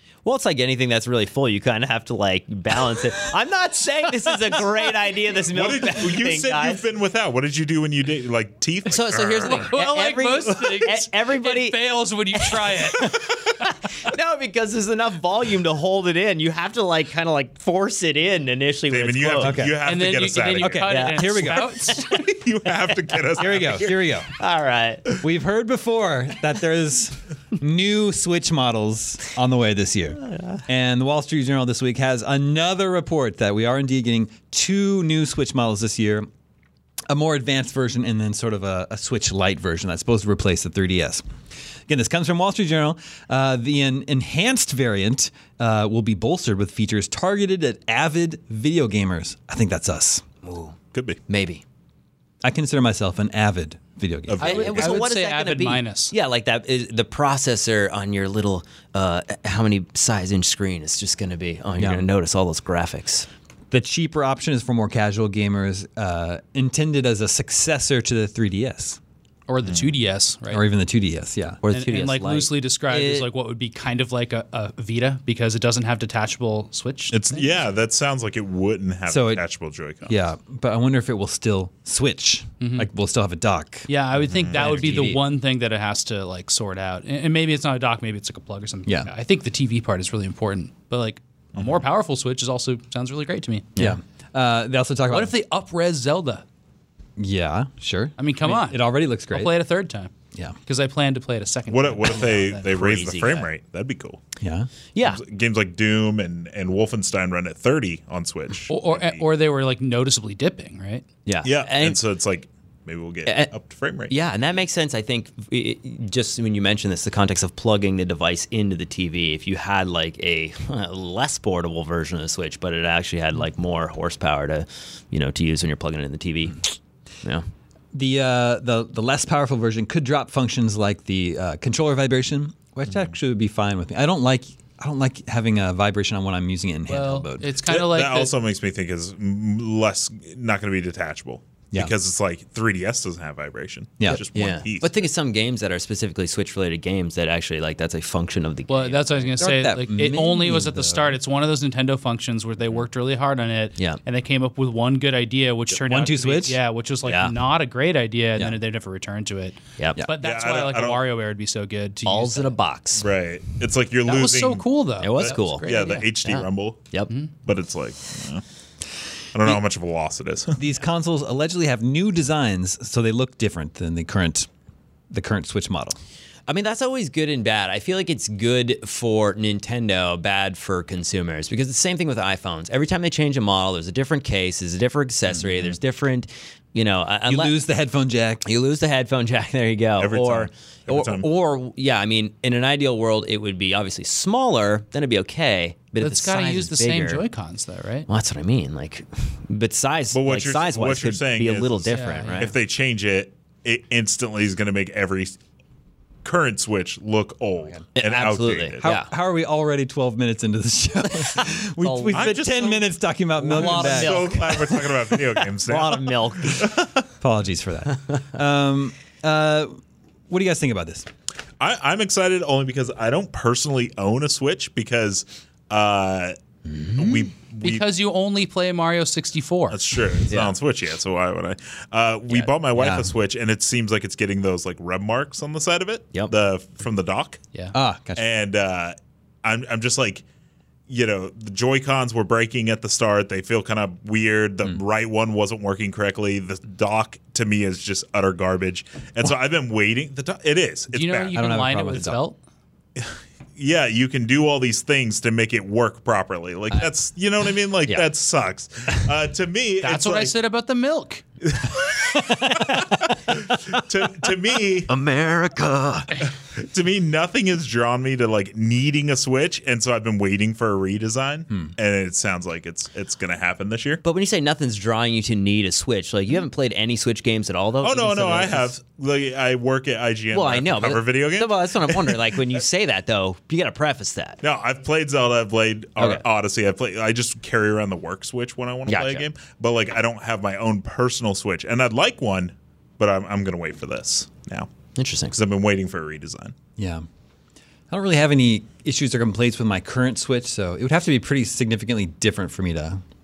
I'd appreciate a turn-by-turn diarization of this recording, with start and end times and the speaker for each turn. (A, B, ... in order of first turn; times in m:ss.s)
0:00.2-0:06.8 A
0:05.4-0:09.7 B
0:08.9-0:11.8 A
0:09.5-0:13.3 C
0:12.3-0:19.7 A
0:18.9-0:20.8 B
0:19.4-0:19.8 D
0:19.8-0:22.3 C
0:20.6-0:21.8 D
0:20.9-0:21.5 A
0:21.9-0:23.9 B
0:23.4-0:24.3 D
0:23.8-0:25.2 A
0:25.2-0:36.3 D
0:30.2-0:30.6 A
0:37.1-0:41.2 D
0:41.9-0:50.2 D
0:50.4-0:50.8 A
0:50.9-0:51.2 B
0:51.3-0:51.6 A
0:52.4-0:54.4 D
0:54.3-0:55.1 B
0:54.4-0:56.1 C
0:54.4-1:03.3 A
1:01.8-1:02.1 D
1:03.7-1:09.0 D
1:09.5-1:10.6 C
1:09.6-1:09.9 B
1:10.5-1:11.6 D
1:11.6-1:13.3 A
1:11.7-1:17.6 C
1:17.1-1:20.2 B
1:19.1-1:19.4 D
1:20.1-1:23.9 D
1:22.6-1:22.9 C
1:23.9-1:33.9 C
1:24.2-1:25.1 B
1:24.5-1:25.2 D
1:33.8-1:35.3 D
1:35.1-1:36.4 C
1:37.2-1:39.5 D
1:38.2-1:40.1 C
1:40.7-1:42.7 C
1:41.7-1:44.2 B
1:42.7-1:43.5 A
1:44.4-1:44.7 D
1:45.0-1:45.2 A
1:45.0-1:49.2 B
1:48.7-1:51.1 C
1:51.3-1:52.0 A
1:51.4-1:54.1 B
1:53.3-1:53.5 A
1:54.1-2:07.4 A
2:07.9-2:17.5 D
2:16.9-2:18.3 C
2:17.7-2:24.9 B
2:24.2-2:29.4 A
2:28.7-2:42.5 C
2:29.4-2:31.1 D
2:35.9-2:36.6 D
2:37.1-2:37.3 A
2:40.2-2:41.0 B
2:42.1-2:43.1 A
2:43.0-2:44.6 B
2:44.0-2:46.1 C
2:45.0-2:47.1 A
2:45.2-2:46.8 B
2:47.4-2:48.4 B
2:49.3-2:50.6 B
2:50.6-2:54.5 D
2:55.1-2:56.0 D
2:56.5-3:07.5 A
3:07.3-3:08.5 D
3:08.4-3:17.2 A
3:10.0-3:11.3 B
3:16.0-3:18.1 C
3:18.1-3:22.6 A
3:20.1-3:25.4 B
3:21.9-3:22.5 C
3:26.2-3:28.9 B
3:28.0-3:29.1 A
3:28.8-3:34.4 D
3:31.1-3:32.4 A
3:32.1-3:32.9 B
3:33.4-3:36.7 A
3:33.5-3:37.0 B
3:37.2-3:39.8 D
3:40.3-3:41.1 D
3:41.6-3:46.4 B
3:46.9-3:47.8 B
3:47.6-3:49.8 C
3:49.7-3:57.4 B
3:50.3-3:50.6 A
3:52.3-3:53.1 A
3:57.7-3:58.2 D
3:58.2-4:00.2 B
4:00.9-4:11.4 B
4:10.9-4:12.4 C
4:11.4-4:12.2 D
4:13.0-4:20.3 B
4:19.8-4:21.2 C
4:21.6-4:24.9 B
4:22.1-4:22.9 A
4:23.4-4:23.7 A
4:24.9-4:26.3 A
4:26.6-4:34.0 B
4:34.0-4:38.7 A
4:37.8-4:42.5 B
4:40.3-4:44.4 A
4:44.4-4:54.7 B
4:46.0-4:46.2 A
4:48.9-4:49.3 A
4:55.0-4:55.4 A
4:55.3-4:56.5 B
4:56.8-4:57.0 D
4:57.9-5:03.0 D